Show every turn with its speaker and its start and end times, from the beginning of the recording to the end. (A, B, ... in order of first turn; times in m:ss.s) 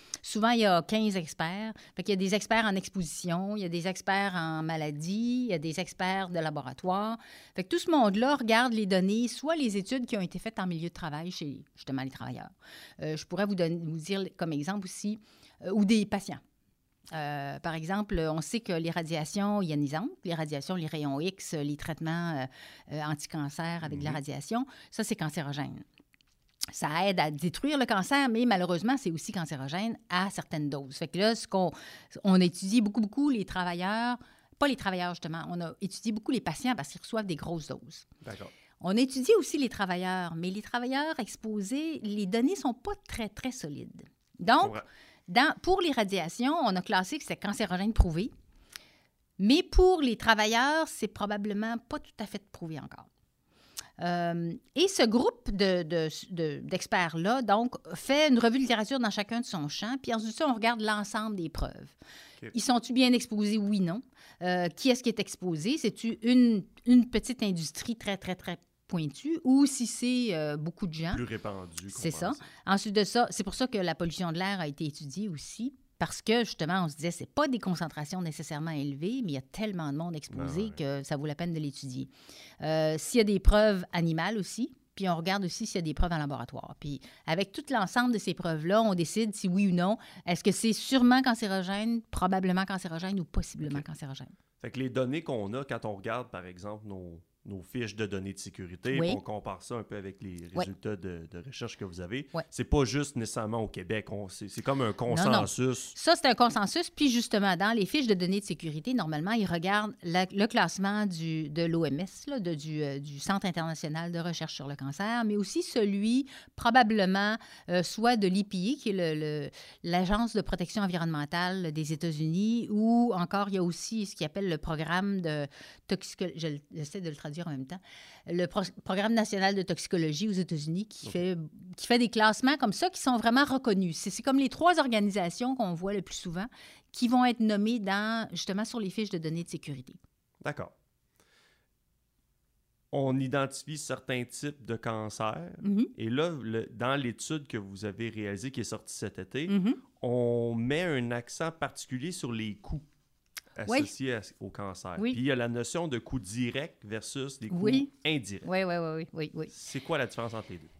0:00.2-0:16.4 A
0:17.1-0:25.8 A
0:23.8-0:24.2 B
0:26.7-0:38.1 A
0:38.2-0:38.5 B
0:38.8-0:48.3 A
0:49.4-0:53.1 A
0:54.0-1:01.9 A
1:02.5-1:11.2 A
1:11.1-1:12.5 B
1:11.9-1:34.3 A
1:20.3-1:20.8 B
1:34.6-1:45.9 B
1:38.9-1:39.2 A
1:45.1-2:20.0 A
2:20.4-2:20.7 B
2:22.9-2:32.9 B
2:25.6-2:25.9 A
2:29.5-2:29.8 A
2:33.6-2:38.4 B
2:37.5-2:37.9 A
2:38.4-2:39.5 A
2:39.5-2:40.7 B